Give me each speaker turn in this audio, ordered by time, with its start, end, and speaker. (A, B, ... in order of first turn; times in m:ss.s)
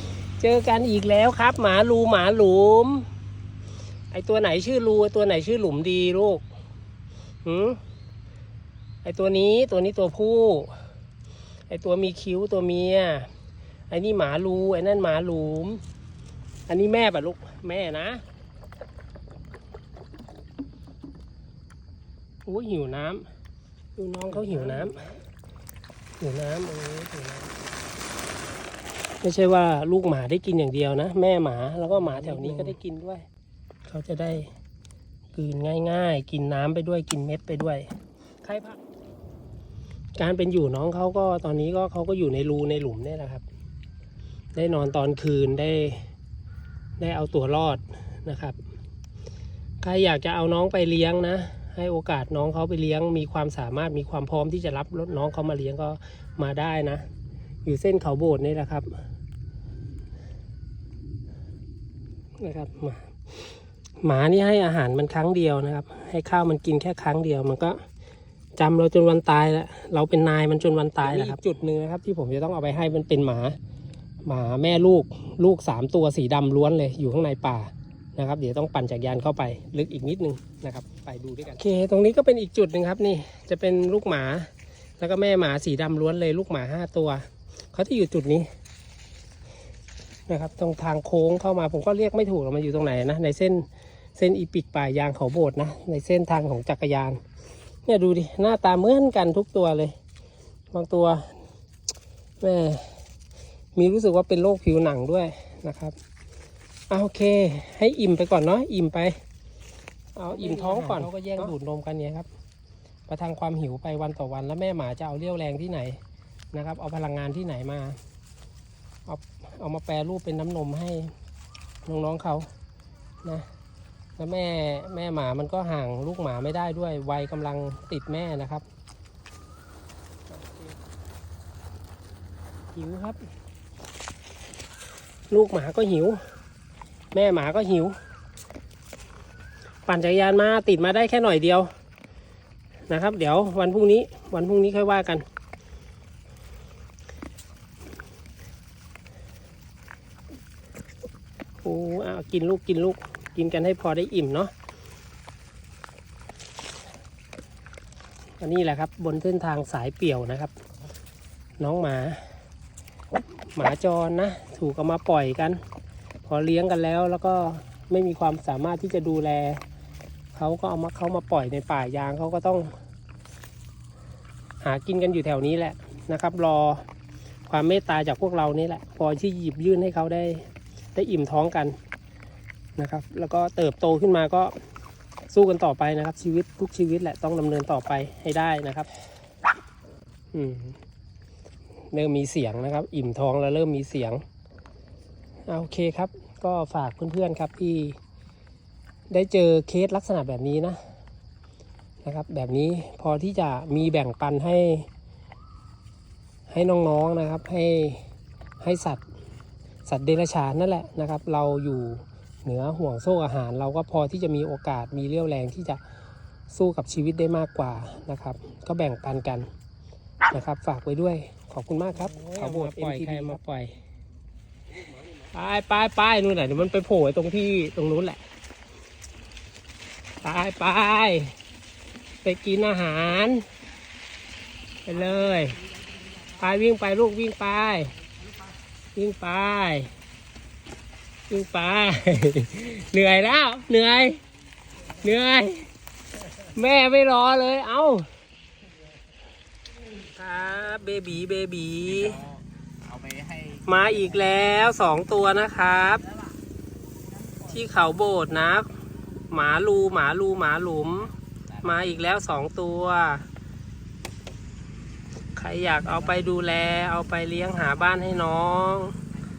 0:00.4-0:03.1 A
0:04.1-0:06.4 A
0:07.4-0:07.8 A
0:09.0-0:10.8 A
0:11.7-0:13.3 A
0:13.9-0:15.8 A
0:16.7-0:18.2 A
0:22.5-0:23.3 A
0:24.0-0:25.2 A
0:24.5-0:24.9 B
0:26.2-0:27.5 A
0:29.2-0:33.2 A
0:32.1-0:32.8 B
0:33.9-0:34.5 A
0:35.3-0:38.8 A
0:40.2-0:43.4 A
0:44.6-0:46.1 A
0:47.0-0:48.6 A
0:49.8-0:57.0 A
0:57.6-0:58.9 A
1:02.4-1:03.5 A
1:04.0-1:07.8 A
1:08.6-1:13.6 A
1:11.0-1:11.4 B
1:14.2-1:28.5 A
1:30.3-1:37.2 A
1:37.9-1:40.0 A
1:40.7-1:41.4 A
1:42.4-1:43.0 A
1:43.8-1:46.0 A
1:46.9-1:49.2 A
1:50.2-1:52.3 A
1:50.3-1:51.5 B
1:53.1-1:56.0 A
1:56.5-1:58.0 A
1:59.1-2:01.1 A
2:01.8-2:02.5 A
2:04.2-2:08.6 A
2:10.3-2:10.7 A
2:12.8-2:13.3 A
2:15.3-2:16.2 A
2:17.1-2:18.0 A
2:19.9-2:21.7 A
2:22.9-2:25.2 A
2:31.6-2:34.5 A
2:38.4-2:40.6 A
2:41.6-2:42.3 A
2:43.5-2:45.6 A
2:46.3-2:49.6 A
2:50.3-2:52.7 A
2:54.6-2:56.8 A
2:57.5-3:01.8 A
3:02.8-3:04.6 A
3:05.3-3:08.9 A
3:10.3-3:10.8 A
3:11.9-3:14.2 A
3:15.5-3:18.0 A
3:19.1-3:20.8 A
3:22.0-3:24.9 A
3:26.5-3:28.0 A
3:28.6-3:29.0 A
3:29.9-3:35.8 A
3:36.5-3:39.5 A
3:40.3-3:43.7 A
3:42.0-3:43.4 B
3:45.3-3:48.2 A
3:50.2-3:51.3 A
3:52.2-3:53.4 A
3:54.9-3:55.6 A
3:56.4-3:57.9 A
3:59.0-3:59.9 A
4:01.3-4:04.2 A
4:05.0-4:05.7 A
4:06.5-4:08.1 A
4:10.1-4:12.2 A
4:12.9-4:13.6 B
4:13.6-4:16.0 A
4:17.4-4:18.7 A
4:19.3-4:23.3 A
4:25.4-4:29.0 A